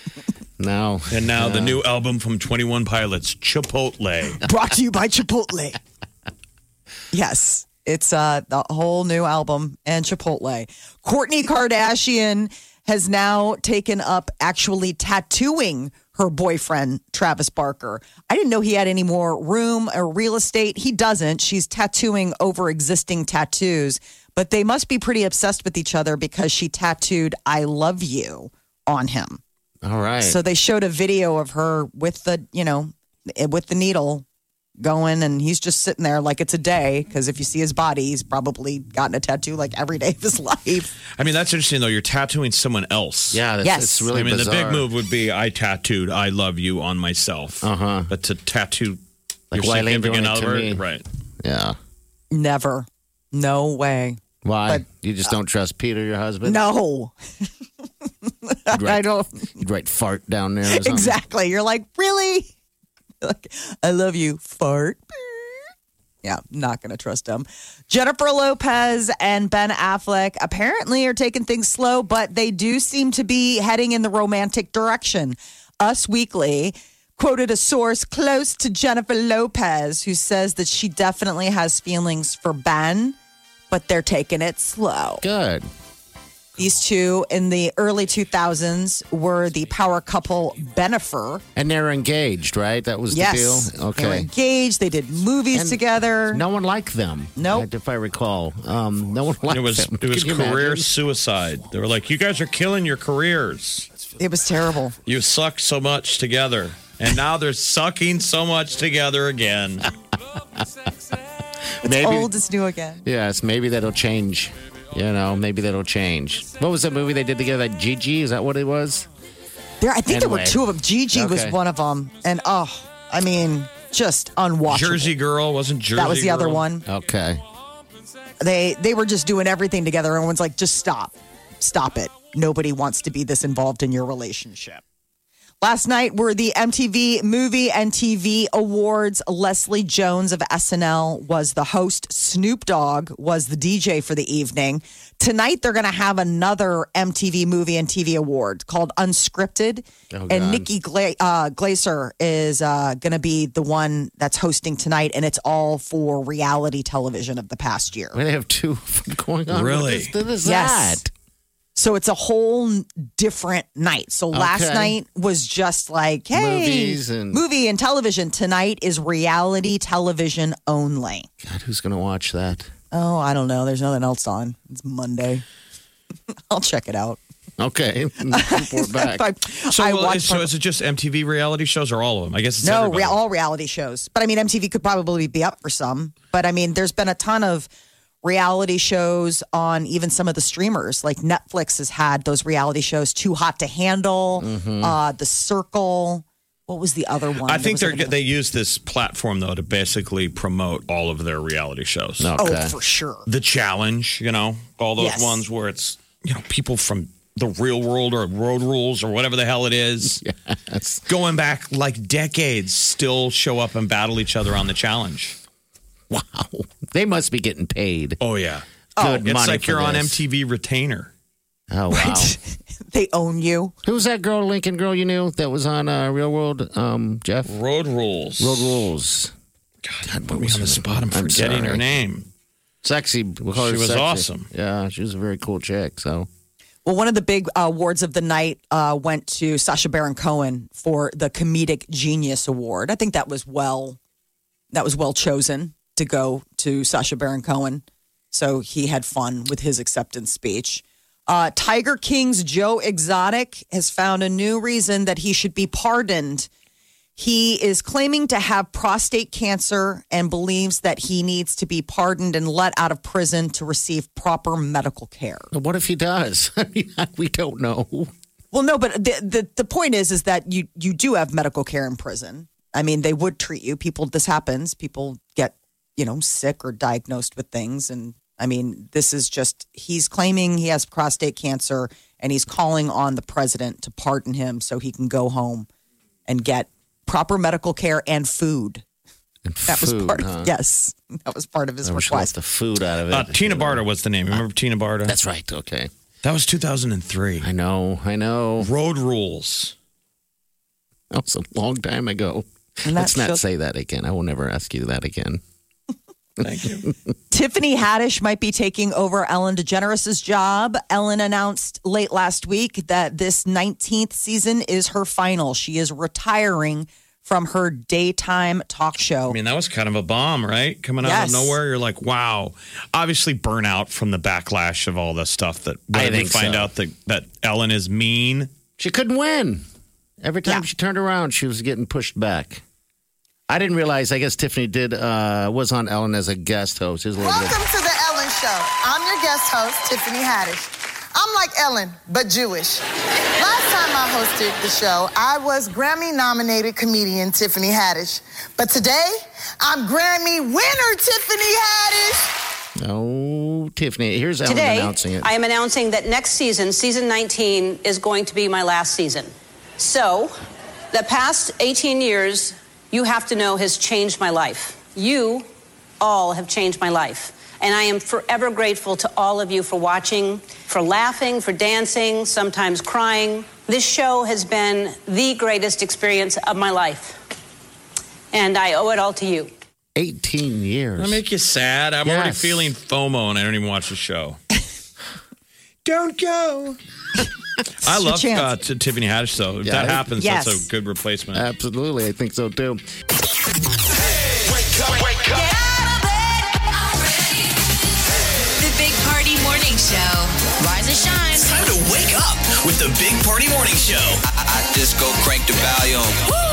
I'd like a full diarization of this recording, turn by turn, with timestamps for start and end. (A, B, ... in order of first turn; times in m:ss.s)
0:00.6-0:01.8 A
0:01.1-0:04.4 B
0:04.4-0:05.8 C
0:07.1-0:29.4 C
0:29.8-0:30.4 A
0:30.2-0:34.2 C
0:34.8-0:40.9 C
0:41.2-0:43.4 B
0:43.3-0:44.8 A
0:43.6-0:44.1 C
0:44.1-0:49.0 B
0:47.6-0:48.1 A
0:49.5-0:50.8 A
0:49.5-0:51.0 B
0:51.4-0:51.8 A
0:52.3-0:54.8 C
0:54.4-0:56.6 A
0:56.4-0:57.1 C
0:58.4-0:59.5 C
0:58.7-0:59.0 A
0:59.5-1:01.2 A
1:00.7-1:02.5 C
1:03.2-1:05.5 C
1:06.2-1:23.2 C
1:23.7-1:25.2 C
1:25.2-1:25.7 A
1:26.6-1:31.4 C
1:31.5-1:34.3 A
1:33.1-1:36.4 C
1:35.5-1:40.9 A
1:37.4-1:37.7 C
1:39.5-1:43.9 B
1:44.2-1:45.0 C
1:45.0-1:49.9 B
1:51.8-1:52.3 A
1:51.8-1:53.0 C
1:53.0-1:59.1 A
1:59.8-2:05.1 C
2:00.1-2:01.6 A
2:04.7-2:06.6 B
2:05.9-2:06.8 C
2:06.8-2:07.4 A
2:08.4-2:14.8 C
2:15.6-2:38.2 C
2:30.1-2:30.7 A
2:38.1-2:41.1 A
2:39.5-2:40.1 B
2:40.4-2:41.0 C
2:41.8-2:51.3 C
2:44.3-2:45.0 A
2:46.3-2:47.4 A
2:51.4-2:52.7 A
2:52.9-2:55.4 C
2:56.5-2:57.2 C
2:57.6-2:59.2 A
2:58.3-3:00.5 C
2:59.7-3:03.2 B
3:02.6-3:07.7 C
3:08.2-3:18.1 C
3:14.4-3:15.0 A
3:17.4-3:22.3 B
3:22.2-3:22.7 A
3:22.4-3:23.2 C
3:23.3-3:30.2 B
3:25.0-3:25.4 C
3:30.0-3:31.0 A
3:31.1-3:35.4 B
3:36.1-3:38.2 A
3:38.2-3:41.1 B
3:39.0-3:40.2 A
3:41.7-3:42.4 A
3:41.9-3:43.7 C
3:43.8-3:47.5 A
3:47.5-3:48.8 B
3:48.4-3:49.3 A
3:49.8-3:52.3 B
3:50.0-3:51.9 A
3:52.8-3:56.3 A
3:53.5-3:54.5 B
3:56.8-4:04.0 C
4:04.7-4:16.5 C
4:17.2-4:25.5 C
4:25.5-4:28.1 A
4:28.5-4:45.7 C
4:46.3-4:48.8 C
4:49.4-4:50.5 A
4:49.7-4:52.3 C
4:51.8-4:54.4 A
4:53.1-4:55.2 B
4:55.0-4:55.9 A
4:56.2-4:57.5 B
4:57.4-4:58.7 A
4:58.6-4:59.7 B
5:01.1-5:05.4 A
5:02.8-5:03.4 C
5:06.4-5:06.9 B
5:07.3-5:19.4 C
5:19.3-5:28.5 B
5:21.0-5:21.6 C
5:25.9-5:26.7 A
5:28.8-5:29.6 A
5:30.2-5:32.6 A
5:33.5-5:37.6 A
5:37.2-5:42.8 D
5:43.4-5:52.3 D
5:52.8-5:55.3 A
5:54.4-6:00.4 E
6:00.9-6:05.5 E
6:06.0-6:17.2 E
6:18.3-6:19.5 E
6:20.0-6:21.2 A
6:21.0-6:24.4 B
6:22.0-6:22.7 A
6:25.8-6:26.8 B
6:27.8-6:31.4 B
6:27.8-6:28.5 C
6:29.6-6:30.2 A
6:30.2-6:30.6 C
6:31.3-6:32.8 A
6:35.1-6:37.4 F
6:38.6-6:41.5 F
6:41.4-6:46.2 G